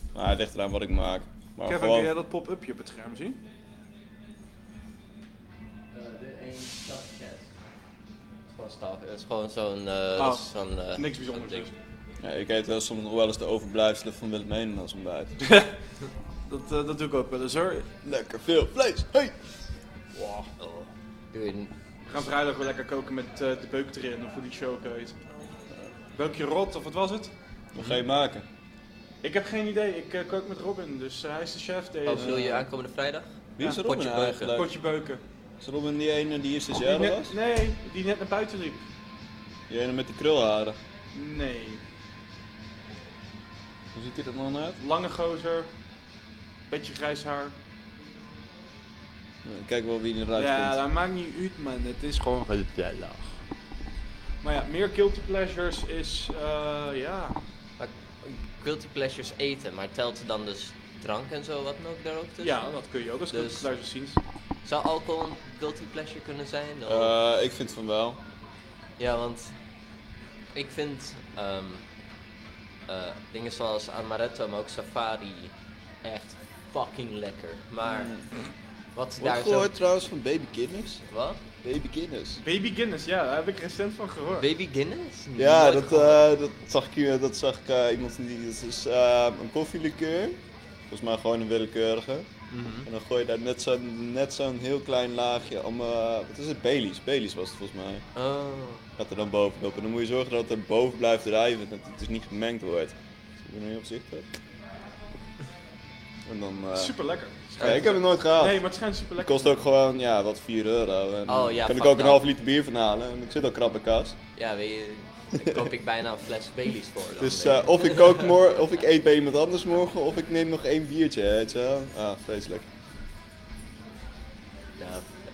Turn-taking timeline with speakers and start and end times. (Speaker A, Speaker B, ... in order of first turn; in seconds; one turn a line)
Speaker A: 0.1-2.1
Speaker B: 1.6-3.4
Speaker C: 5.9-7.5
Speaker C: 8.5-11.7
Speaker B: 10.2-11.8
Speaker A: 12.2-15.4
Speaker B: 15.4-15.7
Speaker B: 16.5-17.9
Speaker A: 18.0-19.4
Speaker B: 20.1-20.5
Speaker C: 20.6-21.7
Speaker B: 22.1-25.2
Speaker B: 26.1-27.3
Speaker A: 27.8-28.4
Speaker B: 29.2-32.4
Speaker C: 32.0-34.6
Speaker A: 32.1-32.6
Speaker A: 33.6-34.7
Speaker B: 34.5-35.2
Speaker A: 35.6-37.4
Speaker B: 36.8-38.8
Speaker A: 39.7-40.8
Speaker B: 41.1-41.8
Speaker A: 43.9-44.8
Speaker B: 44.8-45.7
Speaker B: 46.7-47.5
Speaker A: 49.4-50.8
Speaker B: 50.4-52.6
Speaker B: 54.4-57.4
Speaker C: 57.8-62.7
Speaker B: 62.4-64.2
Speaker C: 63.3-63.7
Speaker C: 64.6-67.1
Speaker A: 66.9-68.2
Speaker C: 69.0-69.5
Speaker C: 70.5-71.8
Speaker C: 72.9-78.1
Speaker A: 77.8-78.2
Speaker C: 78.9-79.7
Speaker A: 79.2-81.0
Speaker C: 81.1-81.4
Speaker A: 81.6-82.4
Speaker B: 82.4-84.5
Speaker C: 84.4-86.2
Speaker A: 85.4-90.4
Speaker A: 90.9-92.3
Speaker C: 92.5-92.9
Speaker A: 92.8-98.0
Speaker C: 98.1-98.8
Speaker A: 99.0-104.3
Speaker A: 106.2-106.9
Speaker B: 106.7-109.7
Speaker C: 107.6-107.8
Speaker A: 107.6-114.2
Speaker C: 111.3-112.2
Speaker C: 114.4-118.3
Speaker A: 117.2-122.7
Speaker C: 124.8-125.1